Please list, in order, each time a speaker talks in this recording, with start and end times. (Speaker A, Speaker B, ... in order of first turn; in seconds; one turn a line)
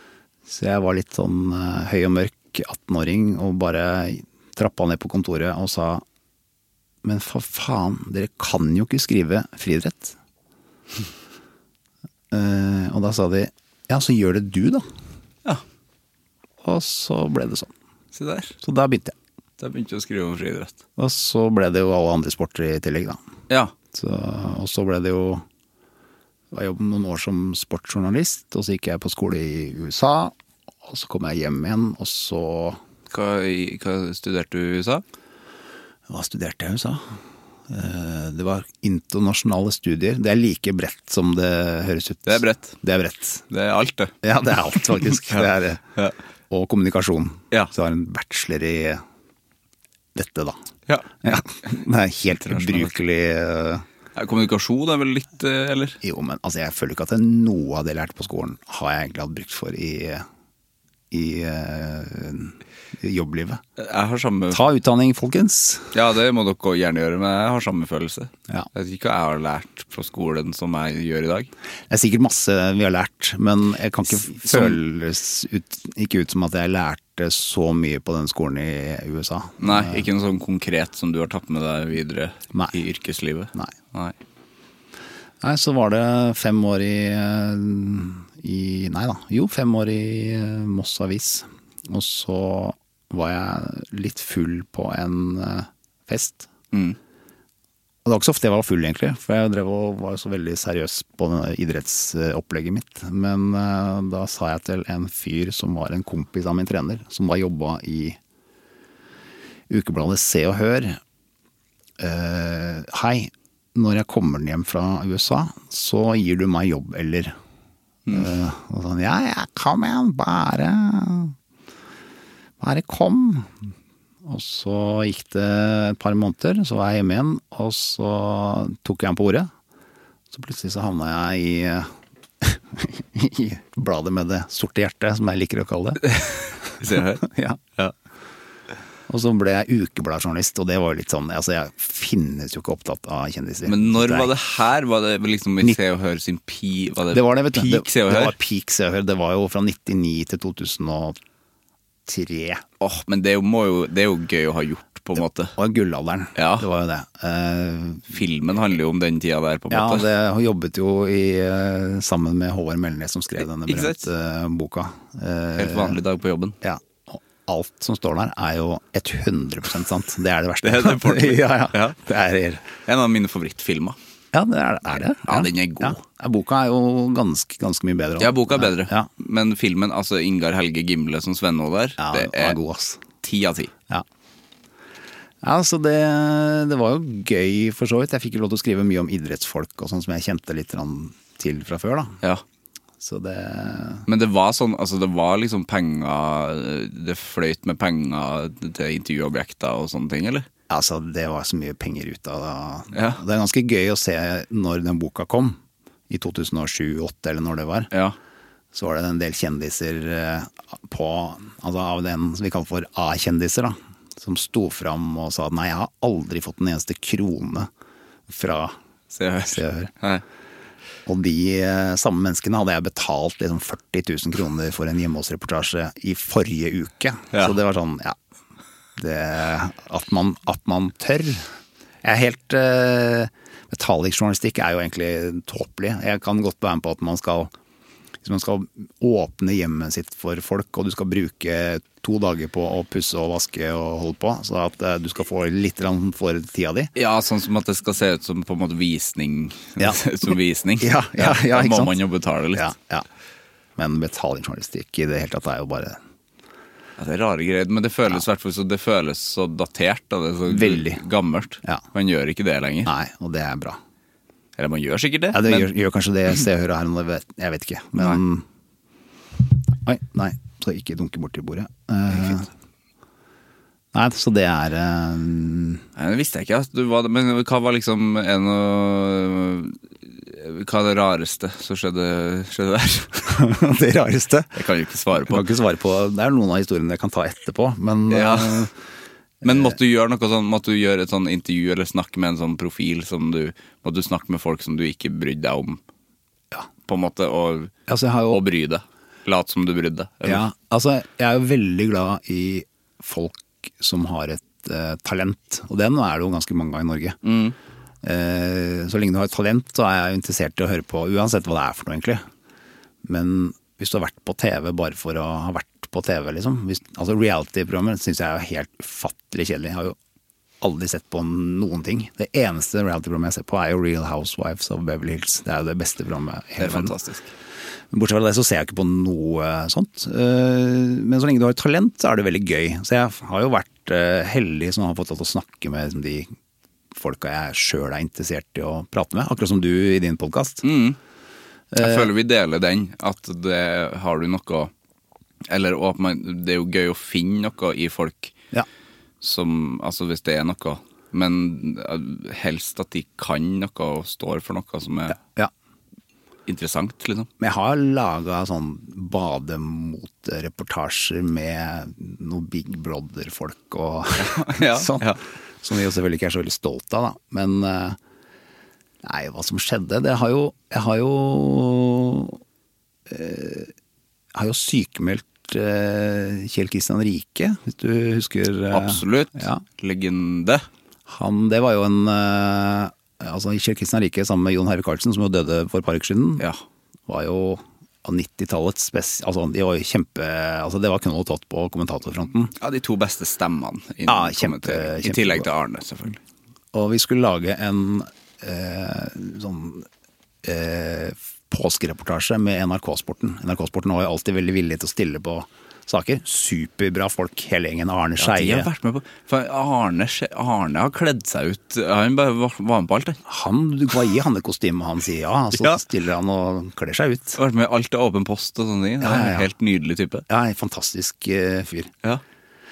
Speaker A: 0.5-6.0
Speaker A: 7.0-10.2
Speaker A: 12.3-14.8
Speaker A: 16.6-17.7
Speaker B: 18.1-18.5
Speaker A: 18.6-19.1
Speaker B: 19.6-20.8
Speaker A: 21.0-23.2
Speaker A: 23.9-25.4
Speaker A: 26.5-32.8
Speaker B: 33.1-35.0
Speaker A: 36.1-37.0
Speaker A: 37.7-43.5
Speaker B: 42.2-42.8
Speaker B: 43.5-44.1
Speaker A: 44.2-45.8
Speaker B: 45.0-46.1
Speaker A: 46.5-49.0
Speaker A: 50.1-50.6
Speaker B: 50.9-51.2
Speaker A: 51.2-53.9
Speaker B: 52.4-52.9
Speaker B: 54.1-56.0
Speaker A: 56.0-60.2
Speaker A: 61.1-63.6
Speaker B: 63.8-64.6
Speaker A: 64.5-65.9
Speaker B: 65.9-71.5
Speaker A: 71.9-80.0
Speaker B: 74.2-74.8
Speaker B: 79.6-84.1
Speaker A: 85.4-96.5
Speaker B: 96.7-97.0
Speaker A: 98.0-108.2
Speaker A: 109.7-111.0
Speaker A: 112.0-117.3
Speaker A: 118.1-121.3
Speaker A: 122.6-123.6
Speaker A: 124.2-129.5
Speaker A: 130.3-136.0
Speaker B: 136.0-137.2
Speaker A: 137.2-137.6
Speaker A: 139.1-144.3
Speaker B: 143.6-148.3
Speaker A: 147.1-151.2
Speaker A: 152.1-152.6
Speaker B: 152.8-155.6
Speaker A: 155.6-158.2
Speaker B: 156.3-156.7
Speaker B: 158.1-160.1
Speaker A: 159.7-166.0
Speaker B: 163.6-164.1
Speaker B: 165.6-166.6
Speaker A: 166.6-172.7
Speaker B: 170.6-172.0
Speaker B: 172.8-174.0
Speaker A: 174.3-179.1
Speaker B: 175.2-176.0
Speaker B: 178.2-182.6
Speaker A: 182.0-183.0
Speaker B: 183.2-183.7
Speaker A: 185.4-192.2
Speaker A: 193.0-194.0
Speaker B: 194.1-200.4
Speaker A: 200.7-205.6
Speaker B: 202.9-203.2
Speaker A: 206.1-207.9
Speaker A: 208.7-217.7
Speaker A: 218.3-218.8
Speaker B: 219.1-220.2
Speaker A: 219.5-219.9
Speaker A: 221.1-228.2
Speaker A: 228.9-231.5
Speaker A: 232.0-237.5
Speaker A: 238.2-246.9
Speaker B: 246.9-252.7
Speaker A: 250.8-252.0
Speaker A: 252.5-253.1
Speaker A: 253.8-256.0
Speaker B: 257.0-262.9
Speaker A: 260.5-261.0
Speaker A: 262.9-263.8
Speaker B: 264.6-265.7
Speaker A: 265.3-268.4
Speaker A: 269.7-272.5
Speaker A: 273.9-275.8
Speaker B: 275.9-283.2
Speaker A: 283.2-284.5
Speaker B: 284.5-285.4
Speaker A: 285.1-288.7
Speaker B: 288.1-288.7
Speaker A: 289.4-289.7
Speaker B: 289.4-295.8
Speaker B: 296.9-297.7
Speaker A: 297.9-298.4
Speaker B: 298.3-300.4
Speaker A: 300.2-307.2
Speaker B: 307.2-307.5
Speaker A: 308.0-312.2
Speaker A: 313.0-320.0
Speaker A: 320.6-326.9
Speaker B: 326.6-327.3
Speaker A: 327.9-336.3
Speaker A: 336.9-340.6
Speaker B: 340.6-341.0
Speaker A: 341.7-342.1
Speaker B: 341.8-344.7
Speaker B: 345.5-348.3
Speaker B: 349.2-355.2
Speaker A: 355.1-355.5
Speaker B: 356.5-357.3
Speaker A: 357.4-368.0
Speaker B: 364.2-365.2
Speaker A: 369.0-372.4
Speaker A: 373.1-373.7
Speaker A: 374.3-379.6
Speaker B: 378.7-380.6
Speaker A: 381.1-386.4
Speaker A: 387.1-392.5
Speaker B: 392.6-396.2
Speaker A: 394.1-395.5
Speaker A: 396.7-399.9
Speaker A: 400.4-408.7
Speaker B: 408.2-413.2
Speaker A: 413.3-417.4
Speaker B: 415.6-415.8
Speaker B: 417.4-420.2
Speaker A: 419.0-419.5
Speaker A: 420.3-421.9